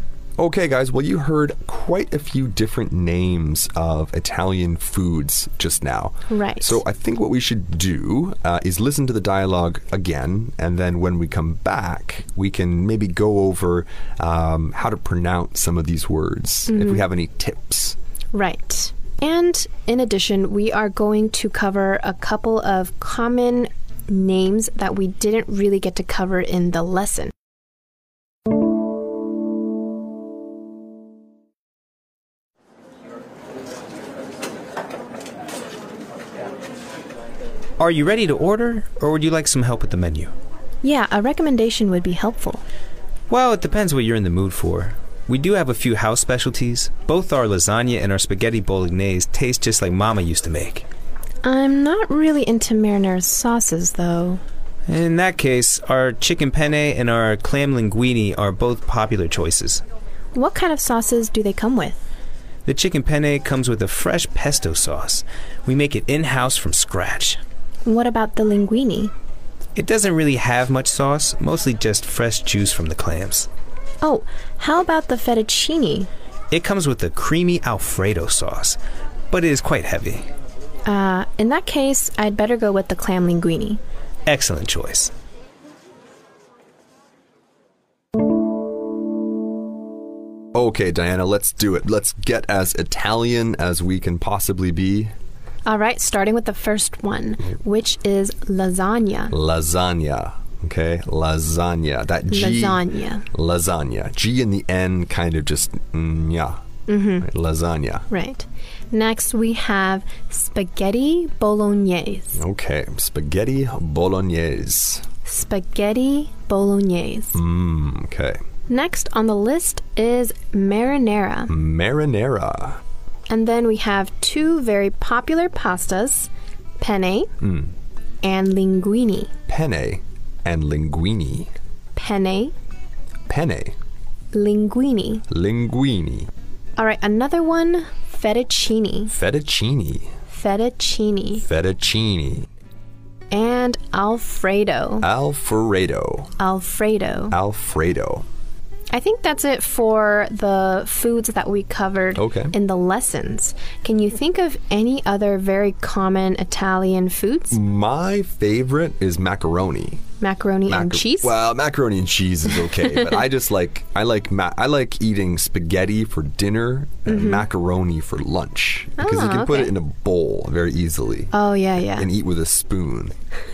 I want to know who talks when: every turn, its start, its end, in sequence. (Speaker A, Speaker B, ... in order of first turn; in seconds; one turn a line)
Speaker A: 0.4-18.0
Speaker B: 6.3-6.8
Speaker B: 16.7-17.1
Speaker B: 18.3-27.3
Speaker C: 37.8-40.3
Speaker B: 40.8-42.6
Speaker C: 43.3-50.9
Speaker B: 51.4-54.4
Speaker C: 54.9-59.8
Speaker B: 60.4-62.0
Speaker C: 62.6-67.4
Speaker B: 67.8-69.1
Speaker C: 69.8-73.5
Speaker B: 74.0-76.1
Speaker C: 76.5-78.8
Speaker C: 79.3-80.3
Speaker B: 80.9-83.8
Speaker C: 84.3-85.1
Speaker A: 90.5-95.1
Speaker B: 95.7-99.3
Speaker A: 99.3-106.6
Speaker B: 102.3-103.3
Speaker B: 106.9-107.3
Speaker A: 107.2-108.1
Speaker B: 108.1-112.4
Speaker A: 112.4-115.1
Speaker B: 115.2-117.4
Speaker A: 117.3-118.4
Speaker B: 118.7-121.5
Speaker A: 121.5-122.8
Speaker B: 123.3-127.3
Speaker A: 127.4-127.7
Speaker B: 128.2-129.3
Speaker A: 129.5-131.5
Speaker B: 131.9-132.5
Speaker A: 133.3-133.8
Speaker B: 134.3-135.2
Speaker A: 135.3-136.3
Speaker B: 136.8-139.1
Speaker A: 139.1-140.1
Speaker B: 140.3-141.4
Speaker A: 141.4-142.5
Speaker B: 143.3-145.1
Speaker A: 145.0-146.3
Speaker B: 146.4-147.4
Speaker A: 147.3-148.3
Speaker B: 148.9-157.6
Speaker A: 152.2-152.5
Speaker A: 157.5-160.0
Speaker B: 160.2-161.4
Speaker A: 160.7-171.3
Speaker B: 162.8-163.1
Speaker B: 167.1-167.5
Speaker B: 169.0-169.7
Speaker B: 171.3-172.1
Speaker A: 171.9-173.2